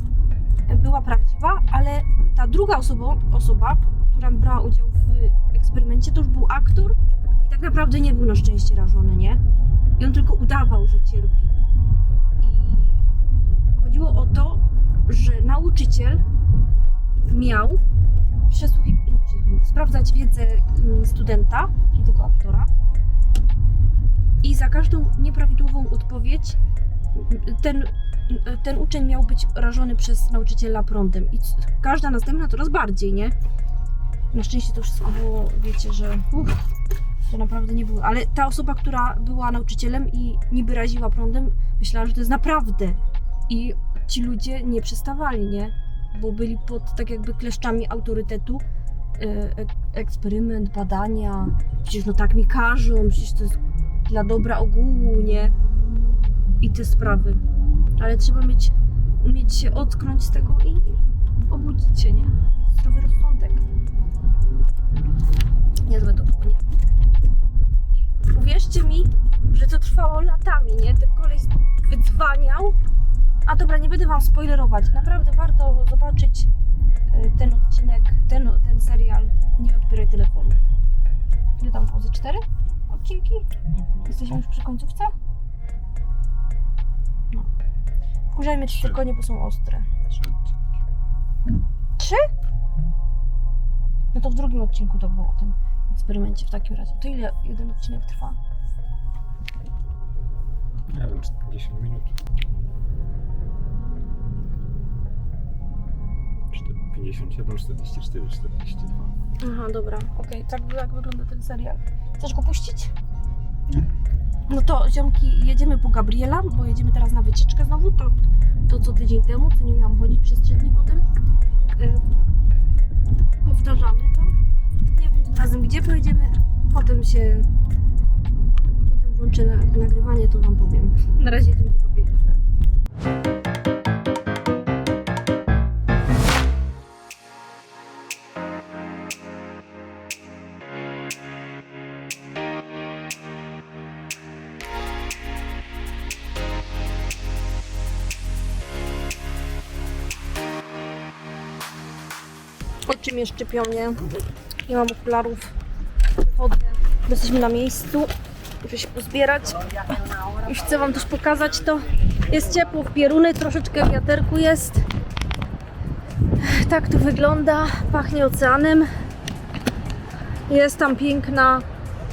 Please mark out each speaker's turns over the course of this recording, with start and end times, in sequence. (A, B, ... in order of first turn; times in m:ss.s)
0:00.7-0:09.4 A
0:10.0-0:11.6 A
0:12.4-0:13.1 A
0:13.7-0:16.2 A
0:17.3-0:17.8 A
0:18.5-0:22.7 A
0:24.4-0:26.6 A
0:27.1-0:33.3 A
0:34.3-0:36.6 A
0:37.2-0:48.6 A
0:49.2-0:55.5 A
0:56.6-0:57.4 A
0:58.0-1:03.6 A
1:05.9-1:06.6 A
1:07.9-1:12.8 A
1:13.5-1:16.5 A
1:17.1-1:20.6 A
1:21.6-1:23.5 A
1:23.6-1:24.4 B
1:24.1-1:25.1 A
1:28.3-1:29.9 A
1:30.1-1:30.5 B
1:32.0-1:32.3 A
1:34.1-1:38.4 A
1:40.9-1:42.1 B
1:46.5-1:49.1 B
1:49.4-1:52.9 A
1:54.5-2:01.0 A
2:01.8-2:02.0 A
2:03.4-2:04.3 A
2:04.9-2:07.5 A
2:08.8-2:12.2 A
2:32.9-2:34.0 A
2:34.7-2:35.5 A
2:36.2-2:38.1 A
2:38.6-2:44.9 A
2:46.4-2:48.9 A
2:50.5-2:51.7 A